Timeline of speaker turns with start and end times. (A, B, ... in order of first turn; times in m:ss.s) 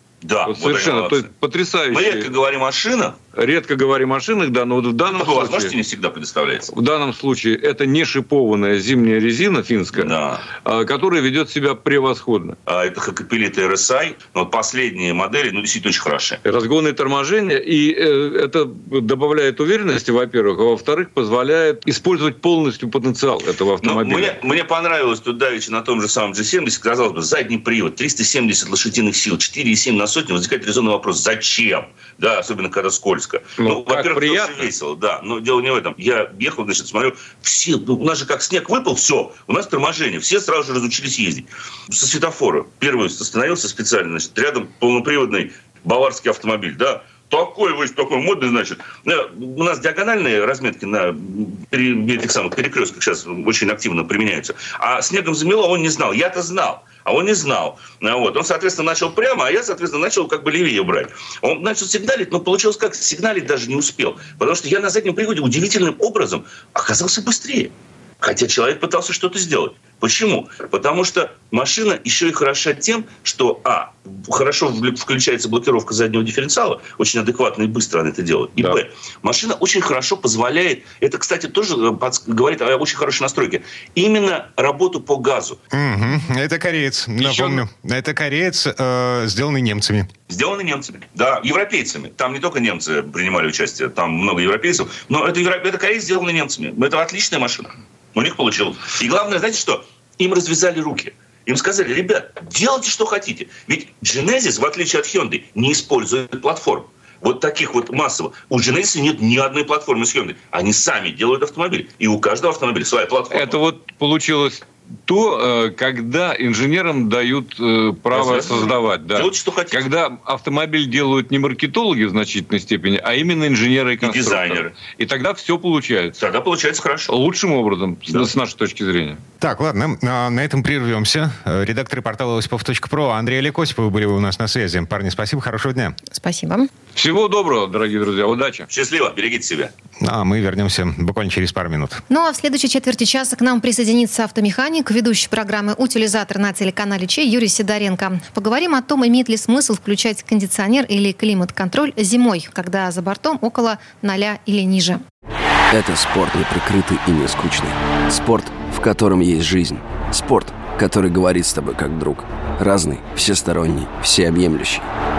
0:00.2-0:01.3 A
0:00.4-0:02.3 B
0:01.9-0:03.2 A
0:03.3-0:05.8 B
0:05.1-0:06.7 A
0:06.7-0:12.6 B
0:09.9-0:10.4 A
0:12.7-0:16.4 A
0:16.4-0:24.4 B
0:23.8-1:25.6 A
0:33.6-0:34.7 B
1:25.7-1:30.1 C
1:27.2-1:27.6 B
1:30.3-1:53.6 A
1:53.3-2:06.2 B
1:58.1-1:59.8 A
2:04.0-2:04.7 A
2:06.2-2:07.1 A
2:07.1-2:09.2 B
2:09.4-2:16.0 C
2:16.1-2:16.7 D
2:17.0-2:18.7 B
2:18.7-2:19.7 A
2:20.0-2:22.0 C
2:22.1-2:35.0 D
2:35.7-2:44.9 E